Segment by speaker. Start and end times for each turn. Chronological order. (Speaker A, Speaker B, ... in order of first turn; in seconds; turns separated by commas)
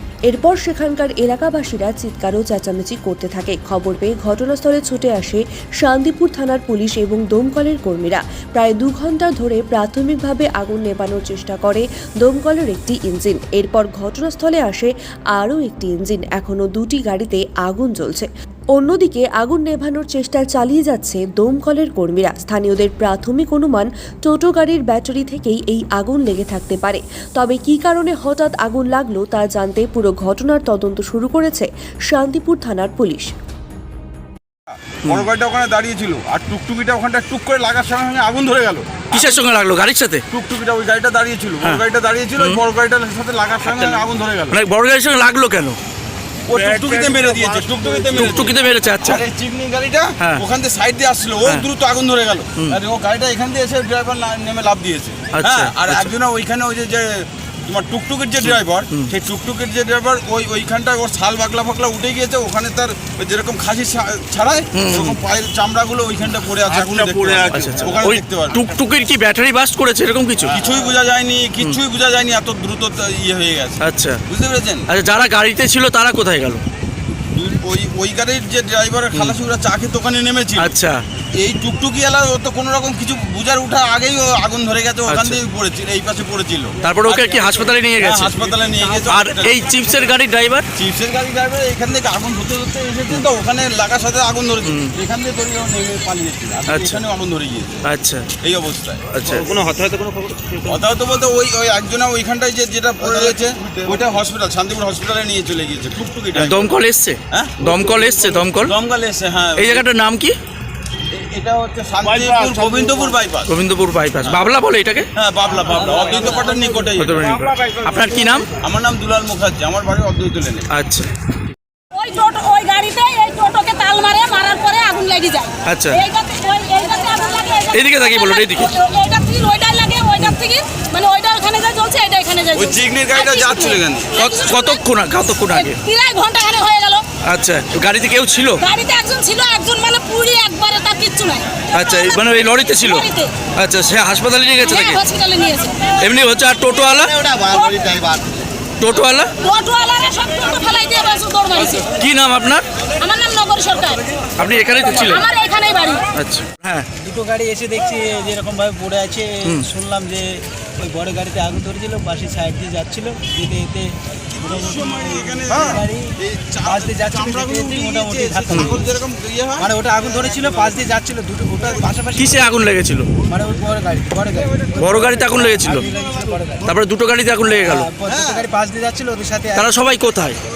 Speaker A: 0.3-33.3, Speaker B: 34.9-39.4, Speaker C: 39.1-40.2, Speaker B: 40.3-44.6, Speaker C: 43.7-44.0, Speaker C: 44.5-45.8, Speaker B: 46.5-68.6, Speaker D: 46.5-48.9, Speaker C: 48.2-49.2, Speaker C: 55.3-56.1, Speaker C: 58.4-59.1, Speaker C: 64.7-65.2, Speaker D: 66.7-68.0, Speaker C: 67.5-70.5, Speaker D: 70.4-70.8, Speaker B: 70.5-74.8, Speaker C: 73.8-74.2, Speaker C: 74.9-76.6, Speaker B: 77.3-80.7, Speaker C: 80.6-81.0, Speaker B: 81.3-86.8, Speaker C: 85.1-85.4, Speaker C: 86.8-88.3, Speaker D: 87.2-87.6, Speaker B: 88.0-89.8, Speaker C: 89.0-90.6, Speaker B: 90.7-97.8, Speaker C: 94.7-94.9, Speaker C: 96.7-97.0, Speaker C: 97.8-98.3, Speaker B: 98.4-99.0, Speaker C: 99.1-99.5, Speaker D: 99.3-100.8, Speaker B: 100.7-106.6, Speaker D: 103.0-104.0, Speaker C: 106.4-108.7, Speaker B: 107.3-107.8, Speaker D: 107.8-108.4, Speaker B: 108.6-109.8, Speaker C: 109.6-110.4, Speaker B: 111.1-113.5, Speaker D: 112.0-113.2, Speaker C: 113.5-115.1, Speaker B: 115.2-117.2, Speaker D: 116.2-116.6, Speaker C: 117.0-118.5, Speaker D: 117.4-118.3, Speaker B: 118.5-120.7, Speaker C: 120.7-121.1, Speaker E: 121.9-134.8, Speaker C: 125.6-126.0, Speaker C: 127.7-128.7, Speaker B: 132.5-134.2, Speaker C: 134.2-135.8, Speaker E: 135.5-137.1, Speaker C: 137.2-138.6, Speaker E: 138.6-143.3, Speaker C: 141.7-145.0, Speaker E: 144.6-145.9, Speaker C: 146.0-147.4, Speaker E: 147.3-148.2, Speaker C: 148.8-149.3, Speaker E: 149.4-151.9, Speaker C: 151.9-152.6, Speaker E: 153.0-154.1, Speaker C: 154.4-155.2, Speaker E: 155.1-156.1, Speaker C: 156.1-156.9, Speaker F: 157.0-166.1, Speaker B: 164.3-169.7, Speaker F: 166.7-168.8, Speaker F: 169.6-172.4, Speaker C: 172.2-173.1, Speaker F: 173.3-176.7, Speaker C: 174.8-175.9, Speaker C: 176.7-177.9, Speaker F: 177.6-179.7, Speaker B: 178.1-178.4, Speaker C: 179.5-180.4